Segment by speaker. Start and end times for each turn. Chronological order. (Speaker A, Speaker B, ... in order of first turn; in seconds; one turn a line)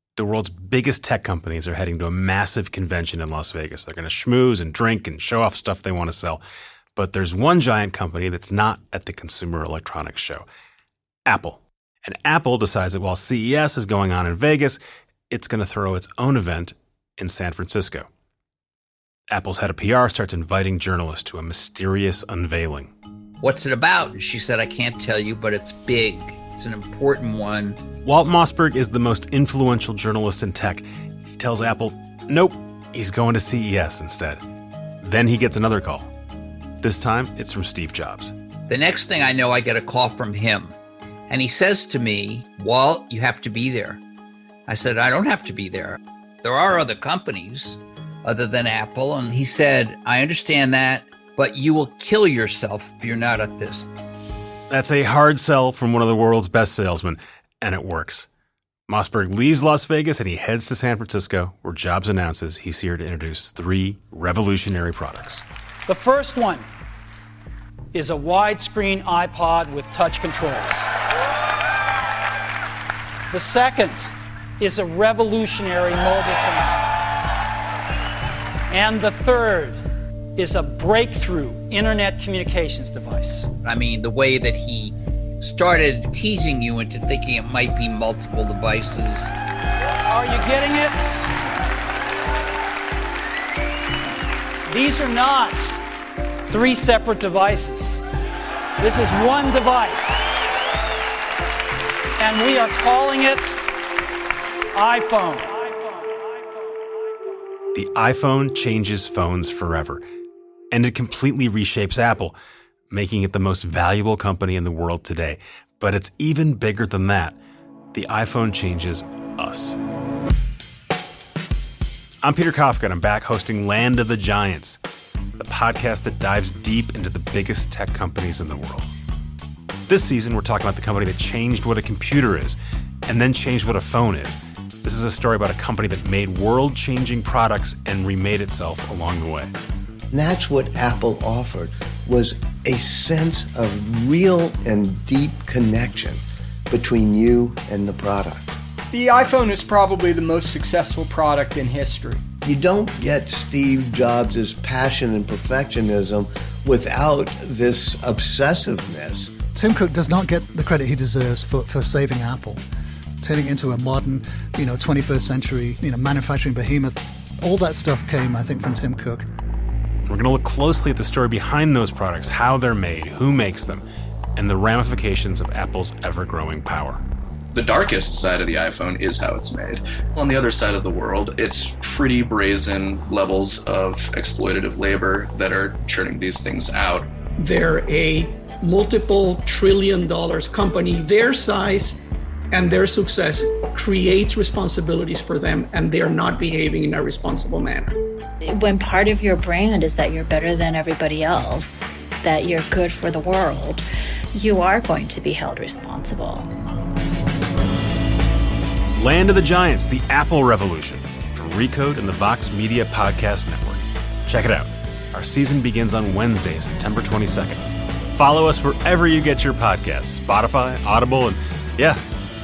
Speaker A: 0.2-6.4
Speaker A: 7.0-10.5
Speaker A: 11.3-18.1
Speaker A: 19.3-22.9
Speaker B: 23.4-27.8
Speaker A: 28.0-34.4
Speaker A: 35.0-36.1
Speaker A: 36.8-38.3
Speaker B: 38.7-40.8
Speaker B: 41.3-44.0
Speaker B: 44.7-53.9
Speaker A: 54.7-58.3
Speaker A: 58.9-65.5
Speaker C: 65.9-66.7
Speaker C: 67.9-70.9
Speaker C: 73.3-76.8
Speaker C: 78.7-79.8
Speaker C: 80.4-83.5
Speaker B: 83.6-89.3
Speaker C: 90.1-91.0
Speaker C: 94.7-95.7
Speaker C: 96.5-98.0
Speaker C: 98.8-100.2
Speaker C: 102.2-103.6
Speaker C: 104.7-105.8
Speaker A: 107.7-110.0
Speaker A: 110.7-112.4
Speaker A: 112.9-117.3
Speaker A: 117.9-119.8
Speaker A: 122.2-124.8
Speaker A: 125.4-128.9
Speaker A: 129.9-139.5
Speaker D: 140.1-148.6
Speaker E: 148.9-152.2
Speaker D: 152.4-159.3
Speaker F: 159.6-162.6
Speaker F: 163.2-169.3
Speaker A: 170.1-177.0
Speaker G: 177.5-187.1
Speaker H: 187.4-192.0
Speaker H: 192.5-198.0
Speaker I: 198.4-206.5
Speaker A: 208.9-217.6
Speaker A: 218.1-222.0